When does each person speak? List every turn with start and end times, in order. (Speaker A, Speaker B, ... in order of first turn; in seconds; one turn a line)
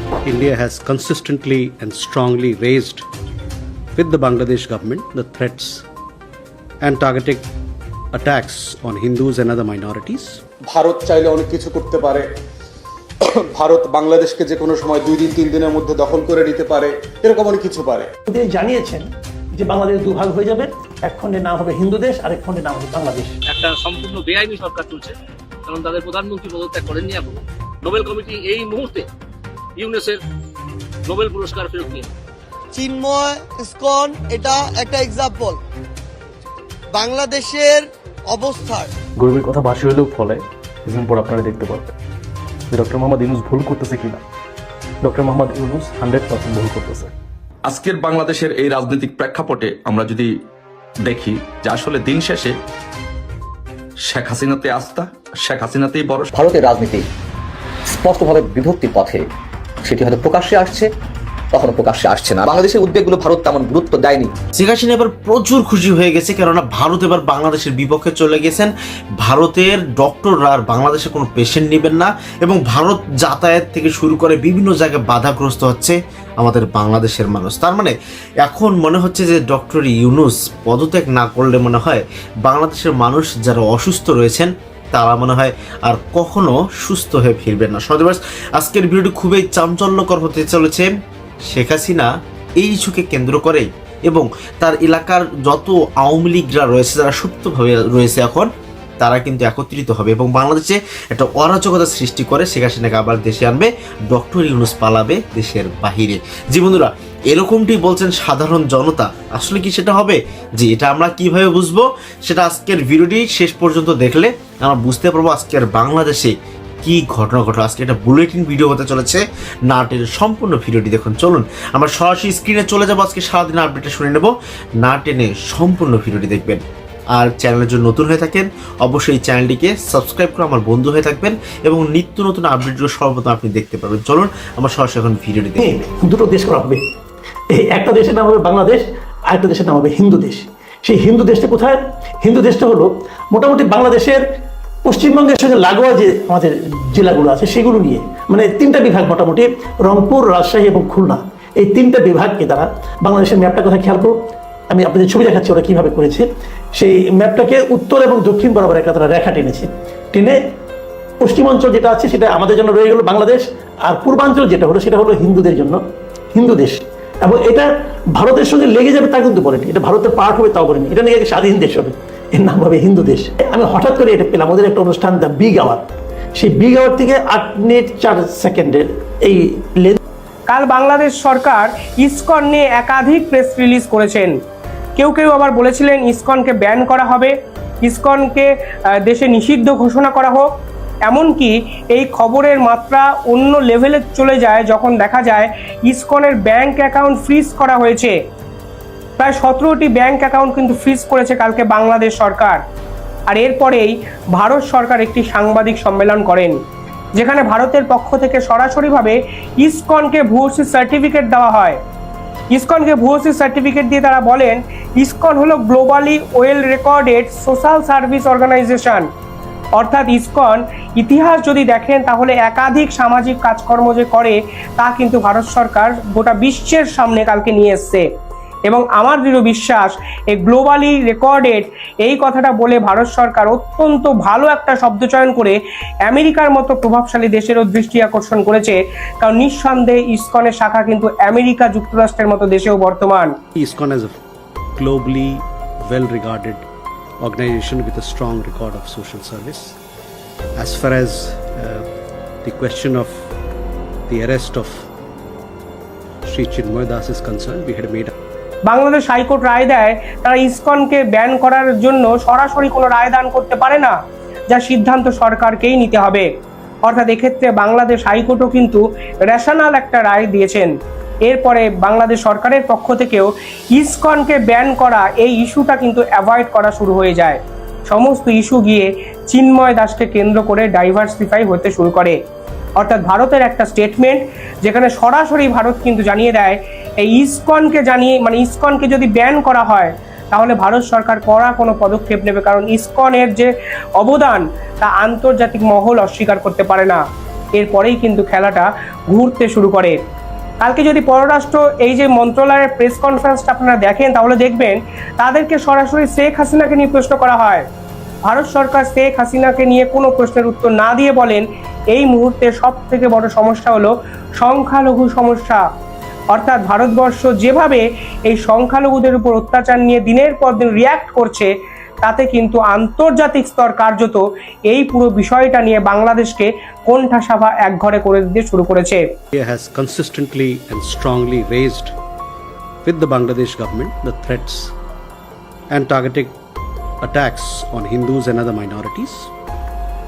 Speaker A: 0.2-3.0
Speaker A: 3.9-5.8
Speaker A: 6.8-7.5
Speaker A: 8.1-10.4
Speaker B: 10.6-12.3
Speaker B: 13.3-18.1
Speaker C: 18.3-19.1
Speaker C: 19.6-23.4
Speaker D: 23.4-25.1
Speaker D: 25.7-29.1
Speaker D: 29.8-30.2
Speaker D: 31.1-32.1
Speaker E: 32.7-35.6
Speaker E: 36.9-38.9
Speaker F: 39.2-41.9
Speaker F: 42.7-44.2
Speaker F: 45.0-47.1
Speaker G: 47.6-50.3
Speaker G: 51.0-52.6
Speaker G: 54.1-56.3
Speaker H: 56.3-57.0
Speaker H: 57.9-59.2
Speaker H: 59.8-60.9
Speaker H: 61.5-64.3
Speaker I: 64.6-90.9
Speaker I: 91.5-98.5
Speaker I: 99.0-124.3
Speaker I: 124.8-126.6
Speaker I: 127.1-135.7
Speaker C: 135.6-136.8
Speaker C: 137.5-144.2
Speaker C: 144.8-154.2
Speaker C: 154.7-160.4
Speaker C: 161.2-165.8
Speaker C: 166.3-180.0
Speaker J: 180.5-184.4
Speaker J: 185.0-188.5
Speaker J: 189.0-190.5
Speaker J: 191.1-198.1
Speaker J: 199.2-202.6
Speaker J: 203.3-206.6
Speaker J: 207.2-211.8
Speaker J: 212.5-219.1
Speaker J: 219.8-228.1
Speaker J: 228.7-243.3
Speaker A: 243.6-244.2
Speaker A: 244.8-246.6
Speaker A: 247.2-249.8
Speaker A: 250.6-251.8
Speaker A: 252.4-253.3
Speaker A: 254.1-254.8
Speaker A: 256.2-258.1
Speaker J: 258.7-263.9
Speaker J: 264.5-266.3
Speaker J: 266.9-270.7
Speaker J: 271.2-282.2
Speaker J: 282.8-297.0
Speaker J: 297.6-300.0
Speaker J: 300.6-307.6
Speaker J: 308.2-315.6
Speaker J: 316.3-321.5
Speaker J: 322.0-329.0
Speaker A: 329.3-331.9
Speaker A: 332.8-334.7
Speaker A: 335.7-336.4
Speaker A: 337.0-339.3